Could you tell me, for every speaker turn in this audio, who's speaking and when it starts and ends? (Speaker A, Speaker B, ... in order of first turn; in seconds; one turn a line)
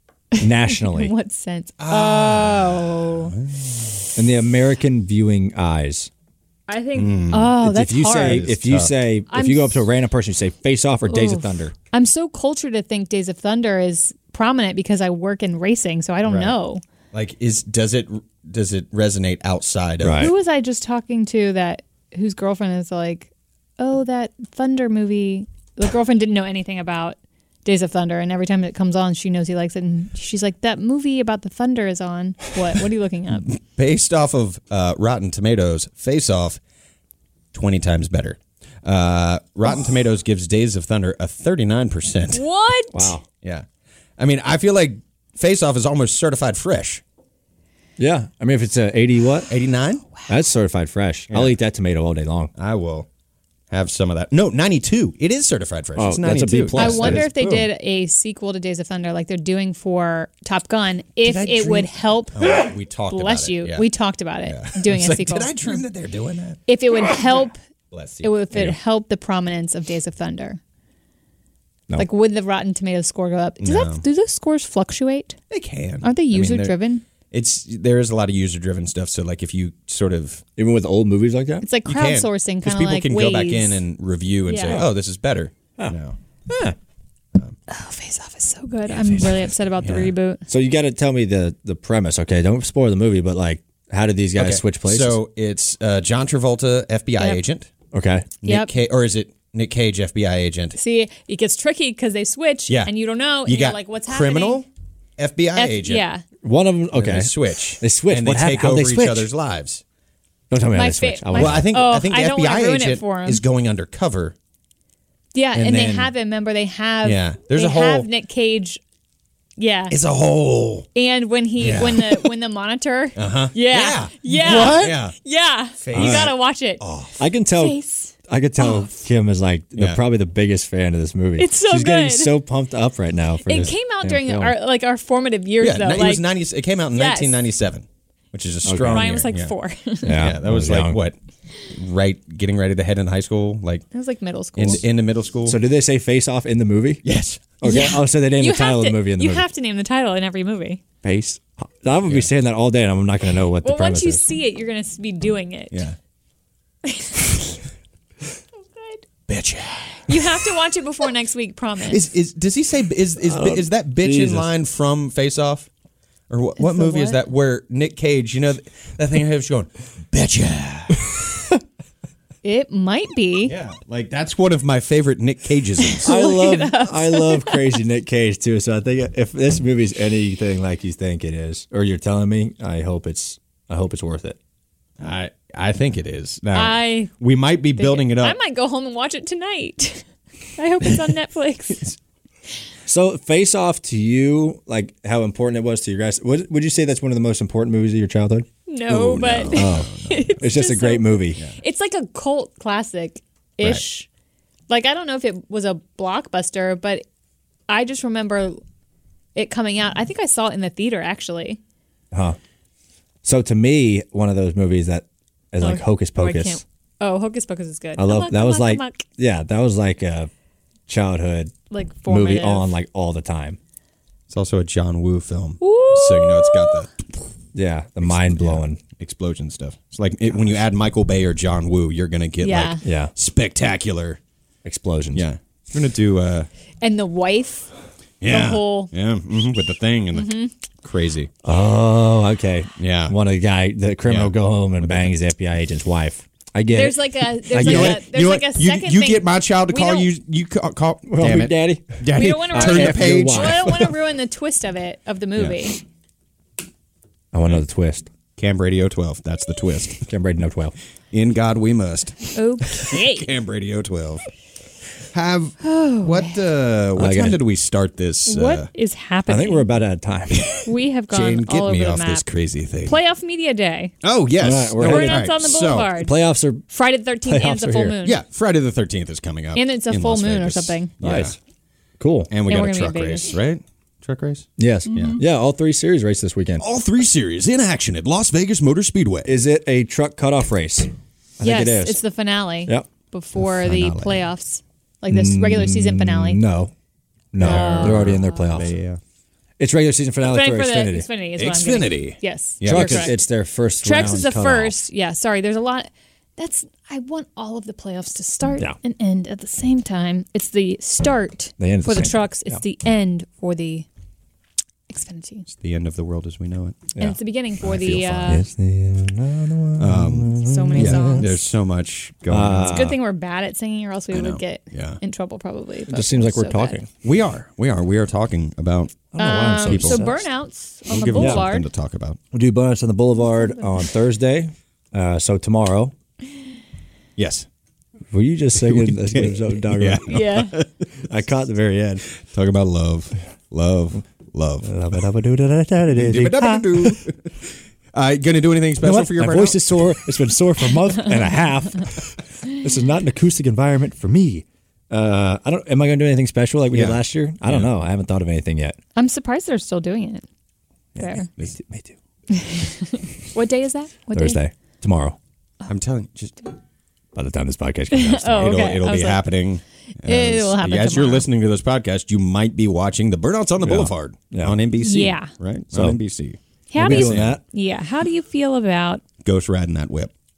Speaker A: 0.3-3.3
Speaker B: 0.4-1.1
Speaker C: 1.8-3.9
Speaker B: 4.2-6.1
Speaker A: 6.7-8.5
Speaker C: 6.9-8.9
Speaker B: 7.6-11.7
Speaker A: 9.3-9.8
Speaker A: 11.1-16.8
Speaker C: 16.3-16.5
Speaker C: 17.1-20.3
Speaker B: 20.0-20.3
Speaker A: 20.2-33.5
Speaker C: 33.5-36.6
Speaker C: 37.5-42.4
Speaker A: 42.3-43.1
Speaker B: 42.9-43.2
Speaker C: 44.2-47.0
Speaker B: 48.0-49.5
Speaker C: 49.5-50.1
Speaker B: 50.2-52.5
Speaker C: 51.3-51.5
Speaker C: 52.5-53.1
Speaker C: 53.7-57.6
Speaker B: 56.0-57.3
Speaker A: 56.7-62.5
Speaker C: 61.2-63.9
Speaker A: 63.1-65.5
Speaker C: 64.5-67.2
Speaker A: 66.7-67.6
Speaker C: 67.9-68.3
Speaker A: 68.2-70.6
Speaker A: 72.0-75.4
Speaker C: 73.6-74.0
Speaker C: 75.5-76.8
Speaker A: 76.0-77.0
Speaker C: 77.3-80.4
Speaker B: 80.6-81.6
Speaker A: 81.6-83.8
Speaker C: 81.8-86.2
Speaker A: 84.5-84.8
Speaker B: 86.5-86.8
Speaker A: 87.7-90.4
Speaker C: 88.9-90.1
Speaker B: 90.5-95.2
Speaker C: 94.3-97.7
Speaker B: 97.9-98.3
Speaker C: 98.4-100.8
Speaker A: 98.4-98.7
Speaker A: 100.7-104.6
Speaker C: 103.4-104.7
Speaker C: 105.2-106.0
Speaker A: 105.5-106.2
Speaker B: 106.4-109.3
Speaker C: 106.9-109.8
Speaker B: 110.5-111.7
Speaker A: 110.7-113.4
Speaker C: 111.3-114.3
Speaker A: 115.3-118.8
Speaker C: 115.5-116.1
Speaker C: 117.0-118.1
Speaker A: 119.6-119.9
Speaker C: 119.9-120.9
Speaker A: 120.9-126.8
Speaker C: 121.6-122.3
Speaker C: 123.2-125.1
Speaker B: 124.4-124.9
Speaker C: 125.8-127.2
Speaker B: 125.9-126.3
Speaker B: 127.2-134.5
Speaker A: 127.6-128.9
Speaker A: 131.4-132.4
Speaker A: 133.4-136.2
Speaker C: 135.6-139.5
Speaker A: 136.9-137.3
Speaker B: 138.6-139.2
Speaker A: 138.9-140.2
Speaker B: 140.0-141.0
Speaker C: 140.1-141.2
Speaker C: 141.7-143.8
Speaker A: 143.9-144.8
Speaker C: 144.6-145.6
Speaker B: 145.4-147.0
Speaker C: 147.0-147.6
Speaker B: 147.6-149.5
Speaker A: 147.6-150.8
Speaker B: 151.0-154.2
Speaker A: 153.6-155.8
Speaker A: 156.8-157.3
Speaker A: 158.6-159.0
Speaker C: 159.3-160.3
Speaker A: 160.1-162.0
Speaker C: 161.9-165.7
Speaker B: 163.2-164.5
Speaker C: 166.3-171.0
Speaker A: 166.6-167.2
Speaker A: 172.4-173.5
Speaker C: 173.4-176.1
Speaker A: 175.8-177.8
Speaker B: 176.0-184.4
Speaker C: 185.0-188.4
Speaker A: 186.5-187.1
Speaker A: 187.8-191.9
Speaker B: 192.8-198.5
Speaker A: 198.7-204.1
Speaker C: 198.9-200.3
Speaker B: 199.5-201.4
Speaker A: 204.7-207.1
Speaker A: 207.7-208.6
Speaker A: 209.3-211.6
Speaker B: 212.1-212.4
Speaker B: 213.2-216.6
Speaker A: 215.6-219.1
Speaker B: 218.0-220.3
Speaker B: 220.9-221.5
Speaker A: 221.7-222.7
Speaker B: 222.1-223.6
Speaker C: 224.3-226.9
Speaker A: 225.6-226.8
Speaker B: 227.5-228.8
Speaker C: 228.0-234.2
Speaker A: 232.4-232.8
Speaker B: 232.8-233.1
Speaker B: 234.6-235.3
Speaker C: 235.1-236.5
Speaker A: 236.8-237.7
Speaker C: 238.2-241.3
Speaker A: 238.2-238.9
Speaker A: 240.1-240.5
Speaker B: 241.4-248.0
Speaker C: 242.8-243.1
Speaker C: 244.1-245.1
Speaker A: 246.7-250.1
Speaker C: 247.6-253.9
Speaker B: 251.1-253.9
Speaker A: 252.1-255.8
Speaker B: 257.3-258.1
Speaker C: 258.4-260.1
Speaker B: 260.1-260.7
Speaker C: 261.1-264.2
Speaker A: 262.3-263.3
Speaker C: 265.1-268.7
Speaker A: 265.6-266.4
Speaker B: 266.9-267.4
Speaker A: 268.3-269.7
Speaker B: 269.3-270.5
Speaker C: 270.3-273.0
Speaker A: 270.6-272.2
Speaker A: 272.8-273.9
Speaker C: 274.0-275.9
Speaker B: 274.4-276.6
Speaker A: 274.8-276.1
Speaker A: 276.7-278.2
Speaker B: 277.2-278.0
Speaker C: 278.0-281.4
Speaker A: 279.5-280.9
Speaker B: 281.0-281.4
Speaker B: 282.0-282.3
Speaker C: 282.3-285.2
Speaker A: 282.5-283.3
Speaker B: 284.6-286.6
Speaker A: 284.9-285.2
Speaker C: 286.6-289.3
Speaker B: 289.2-292.0
Speaker A: 291.4-296.4
Speaker C: 293.4-294.2
Speaker B: 295.1-296.7
Speaker B: 297.3-298.8
Speaker C: 297.4-299.0
Speaker A: 297.4-298.4
Speaker B: 299.6-301.1
Speaker A: 300.2-303.2
Speaker C: 301.4-303.1
Speaker B: 302.6-304.7
Speaker A: 303.8-313.9
Speaker B: 311.6-312.6
Speaker A: 314.9-315.5
Speaker C: 315.5-316.9
Speaker B: 316.9-321.3
Speaker A: 317.0-318.4
Speaker C: 319.8-322.9
Speaker A: 320.4-321.4
Speaker B: 322.3-323.0
Speaker A: 322.7-326.8
Speaker C: 324.1-325.0
Speaker B: 325.9-326.9
Speaker C: 327.0-330.1
Speaker B: 329.1-330.2
Speaker A: 329.1-331.6
Speaker C: 330.9-332.2
Speaker B: 331.1-331.5
Speaker B: 332.3-335.9
Speaker A: 333.4-333.8
Speaker C: 337.2-337.5
Speaker B: 338.1-340.3
Speaker C: 338.6-340.9
Speaker A: 340.1-340.6
Speaker B: 341.0-342.0
Speaker C: 342.1-344.7
Speaker B: 344.6-347.0
Speaker C: 345.9-349.9
Speaker B: 348.8-358.8
Speaker C: 356.7-357.7
Speaker A: 358.9-360.2
Speaker A: 360.9-361.3
Speaker B: 361.0-361.9
Speaker A: 362.3-364.4
Speaker B: 364.1-365.2
Speaker C: 365.7-366.4
Speaker B: 367.1-368.7
Speaker A: 367.9-369.2
Speaker C: 368.3-377.4
Speaker A: 370.0-371.3
Speaker B: 373.6-374.6
Speaker A: 374.8-375.3
Speaker B: 375.7-376.0
Speaker A: 376.7-379.0
Speaker B: 376.8-377.4
Speaker C: 379.2-380.1